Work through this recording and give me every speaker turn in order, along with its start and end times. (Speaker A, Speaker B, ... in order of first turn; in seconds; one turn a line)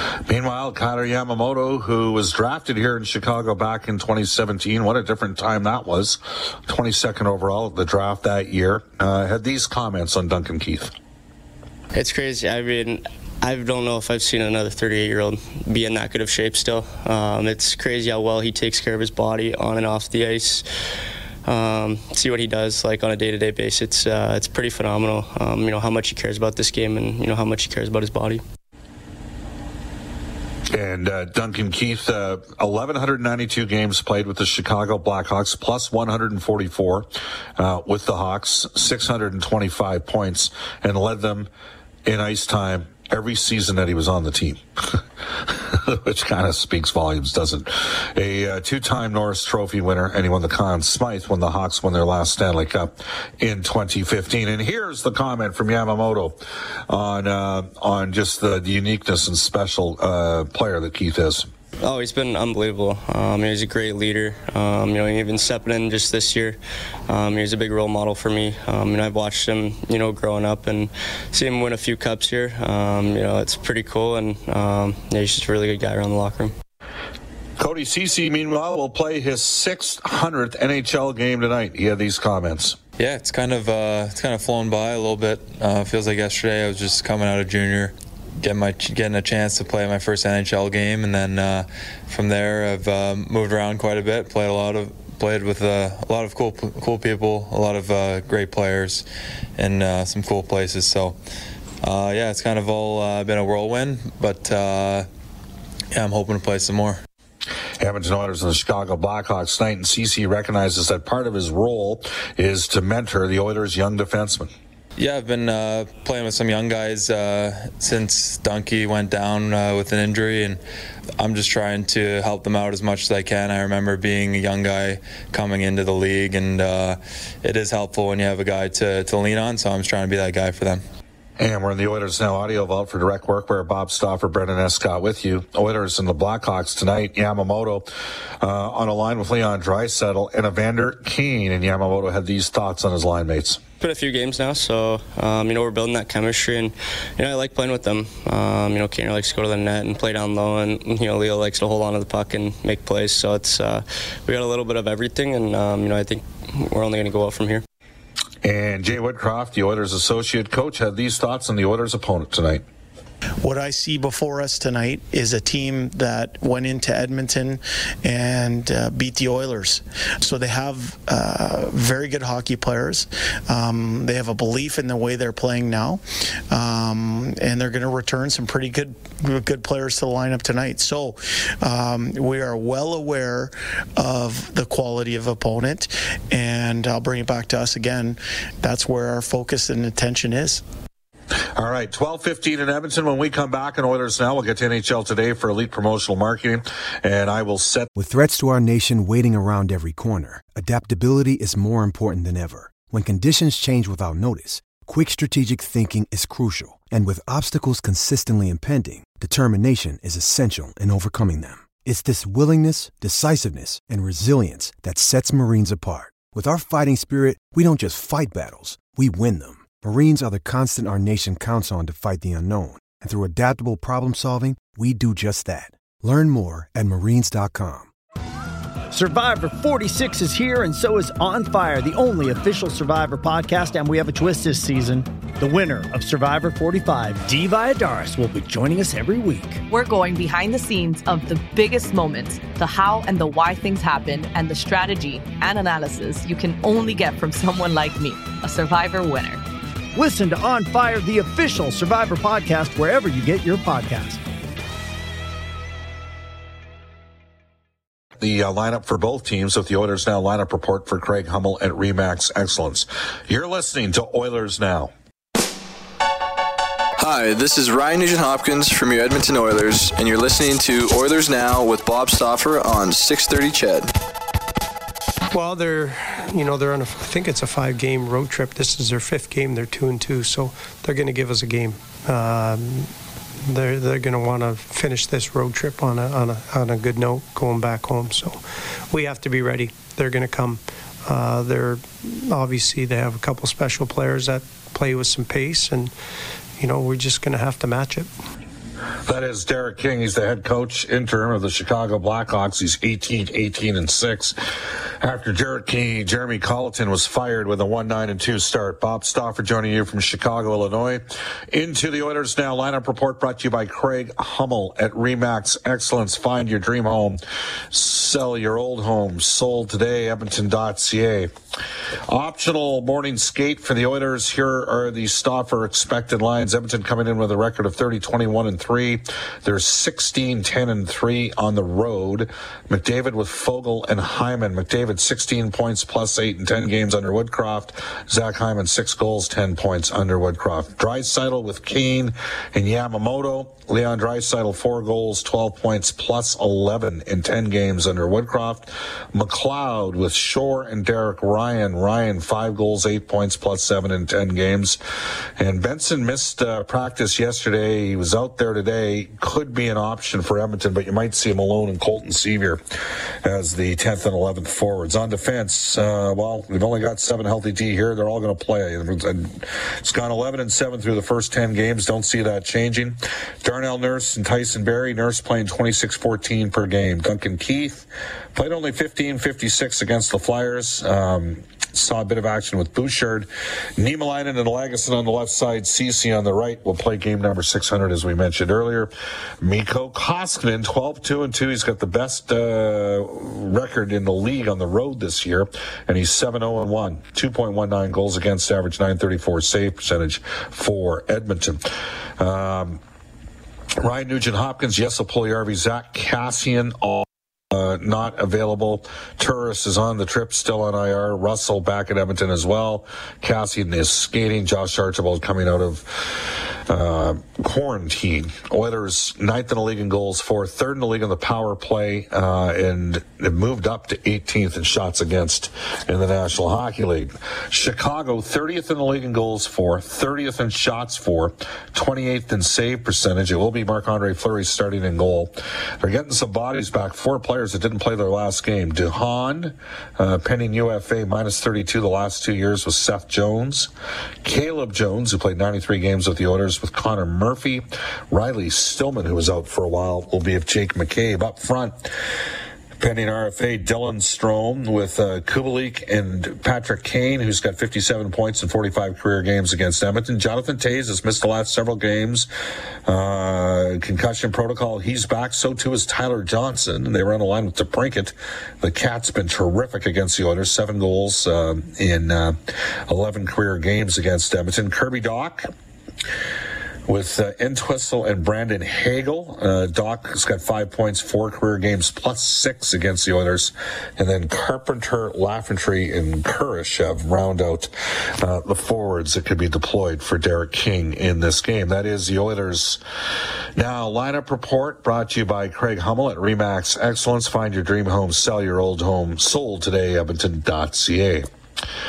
Speaker A: 0.3-10.9
Speaker B: 11.9-20.6
Speaker B: 21.5-28.4
Speaker A: 30.7-41.5
Speaker A: 42.1-61.5
Speaker B: 61.8-66.6
Speaker B: 67.1-76.5
Speaker A: 77.6-82.8
Speaker C: 83.0-99.0
Speaker C: 99.6-101.2
Speaker C: 101.8-105.1
Speaker C: 105.9-107.0
Speaker A: 107.8-114.5
Speaker C: 115.0-120.6
Speaker C: 121.2-130.8
Speaker A: 131.4-137.9
Speaker A: 138.4-143.6
Speaker B: 143.8-157.6
Speaker A: 158.4-162.6
Speaker D: 163.4-190.6
Speaker A: 191.6-197.9
Speaker E: 197.9-227.9
Speaker F: 228.9-239.6
Speaker G: 239.7-249.4
Speaker F: 249.9-254.2
Speaker A: 258.2-264.9
Speaker H: 267.0-273.7
Speaker I: 275.3-282.9
Speaker I: 283.5-295.9
Speaker I: 296.6-298.1
Speaker A: 299.1-304.4
Speaker A: 305.0-317.2
Speaker A: 317.7-321.3
Speaker A: 322.1-354.8
Speaker A: 355.4-362.6
Speaker A: 363.2-401.6
Speaker A: 402.2-402.8
Speaker A: 403.8-443.7
Speaker A: 444.2-451.9
Speaker A: 452.8-462.3
Speaker A: 462.9-472.4
Speaker A: 472.9-475.5
Speaker A: 476.9-487.7
Speaker A: 488.2-492.8
Speaker A: 493.6-501.3